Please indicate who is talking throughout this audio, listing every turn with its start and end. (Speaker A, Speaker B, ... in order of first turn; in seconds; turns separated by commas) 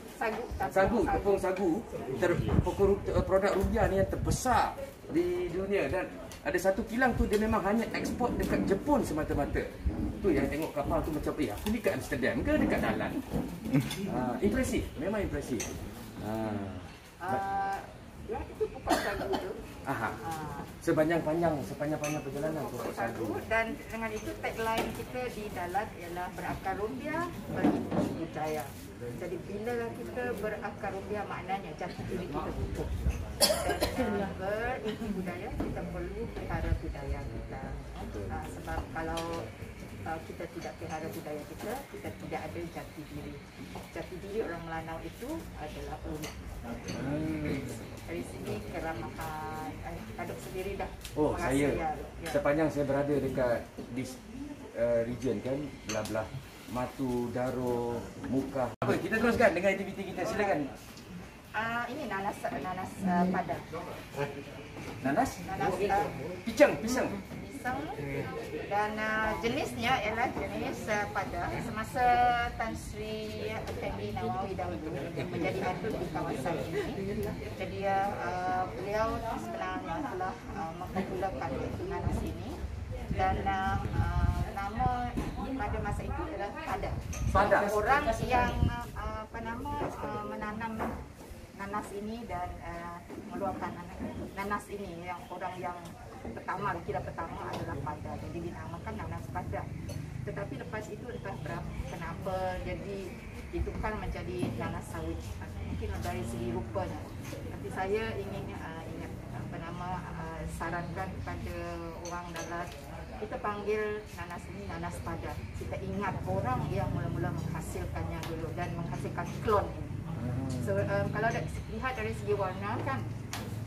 Speaker A: 0.1-1.4, Speaker B: 0.7-13.2, Speaker B: 14.0-15.7, Speaker B: 16.2-17.4, Speaker A: 17.2-19.6, Speaker B: 19.9-20.2, Speaker A: 20.2-20.7, Speaker B: 20.8-23.4, Speaker A: 22.3-32.9, Speaker A: 33.5-39.4, Speaker A: 40.0-46.5, Speaker B: 46.9-47.8, Speaker A: 48.1-52.4, Speaker B: 51.2-54.2, Speaker B: 54.7-60.7, Speaker A: 61.5-63.6, Speaker B: 65.0-65.5, Speaker A: 65.4-66.2, Speaker B: 66.5-67.2, Speaker A: 67.2-68.0, Speaker A: 68.7-82.6, Speaker A: 83.1-91.0, Speaker B: 87.3-88.4, Speaker A: 91.6-99.7, Speaker A: 100.2-123.1